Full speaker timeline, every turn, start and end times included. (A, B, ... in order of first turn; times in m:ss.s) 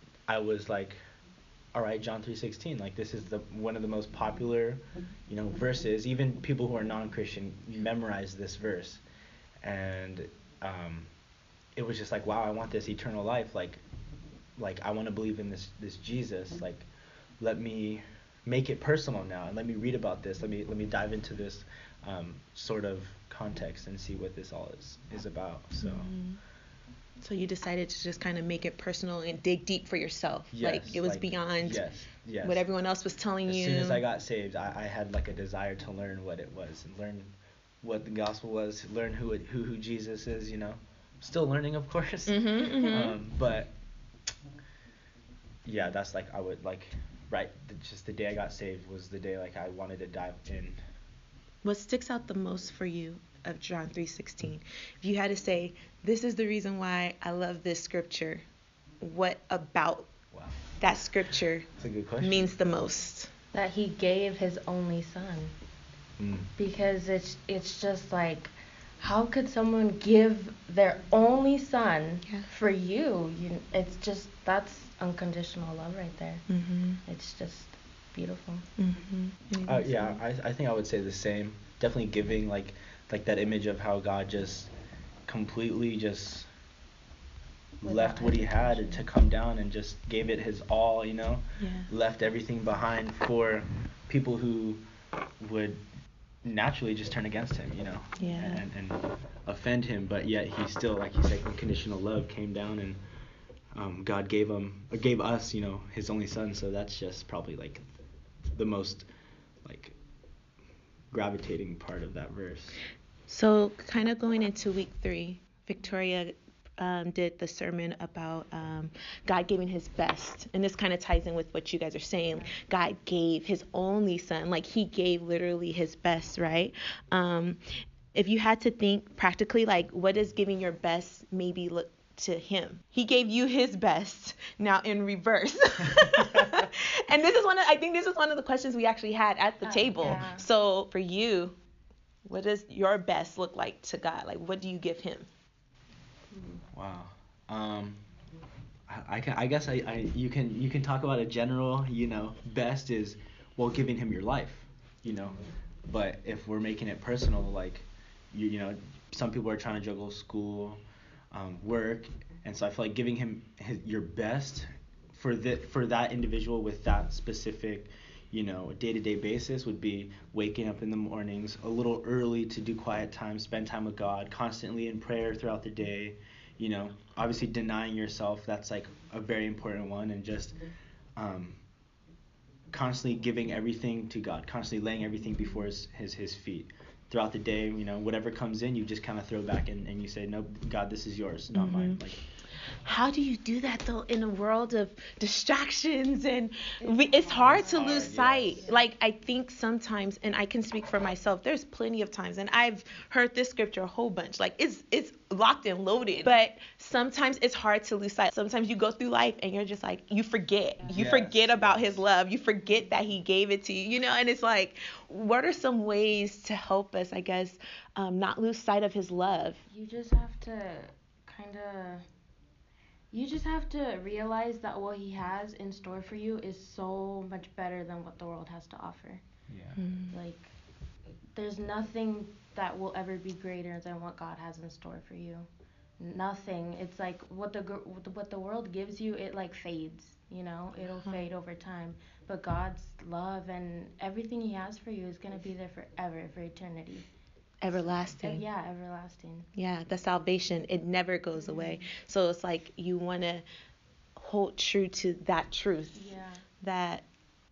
0:00.3-0:01.0 A
0:01.7-0:09.0 A
0:09.6-0:11.1 A
0:11.8-0:13.8 A
0:14.6-0:16.9 A
0:17.4-0:26.1 A
0:25.8-0:26.4 B
0:27.2-0:31.8 B
0:30.5-0:32.6 A
0:32.4-0:34.0 B
0:33.5-0:43.7 A
0:42.3-0:43.2 B
0:45.7-0:50.8 A
0:51.6-0:58.4 B
0:59.0-1:00.1 B
1:00.3-1:00.6 A
1:00.8-1:01.7 B
1:01.8-1:02.5 A
1:02.2-1:03.3 B
1:03.5-1:05.5 C
1:06.2-1:06.5 A
1:06.6-1:16.4 C
1:16.5-1:17.0 B
1:17.0-1:18.7 C
1:18.8-1:20.2 B
1:19.6-1:24.7 A
1:25.3-1:26.5 A
1:27.8-1:34.8 A
1:27.8-1:29.1 C
1:31.6-1:31.9 B
1:35.4-1:35.8 A
1:36.4-1:43.0 A
1:38.2-1:38.6 B
1:43.7-1:47.8 A
1:48.6-1:49.1 A
1:49.6-1:50.0 A
1:51.1-1:52.8 A
1:53.3-2:07.6 B
2:08.1-2:21.6 B
2:19.6-2:20.5 C
2:22.3-2:25.3 B
2:26.3-2:26.6 C
2:26.7-2:28.0 A
2:28.9-2:40.8 A
2:41.3-3:00.6 A
3:01.2-3:01.6 A
3:02.7-3:12.2 A
3:11.5-3:12.0 B
3:12.8-3:39.6 B
3:16.8-3:18.8 C
3:17.4-3:18.7 A
3:30.9-3:32.1 A
3:32.7-3:32.9 C
3:39.7-3:42.0 C
3:43.1-3:49.2 C
3:49.5-3:49.8 A
3:49.8-3:50.2 B
3:50.1-3:50.5 C
3:51.4-3:55.5 C
3:56.0-4:07.1 C
4:00.8-4:01.3 B
4:07.6-4:08.4 B
4:07.7-4:09.5 C
4:09.6-4:13.4 B
4:11.3-4:11.9 C
4:14.2-4:17.1 B
4:15.9-4:16.4 C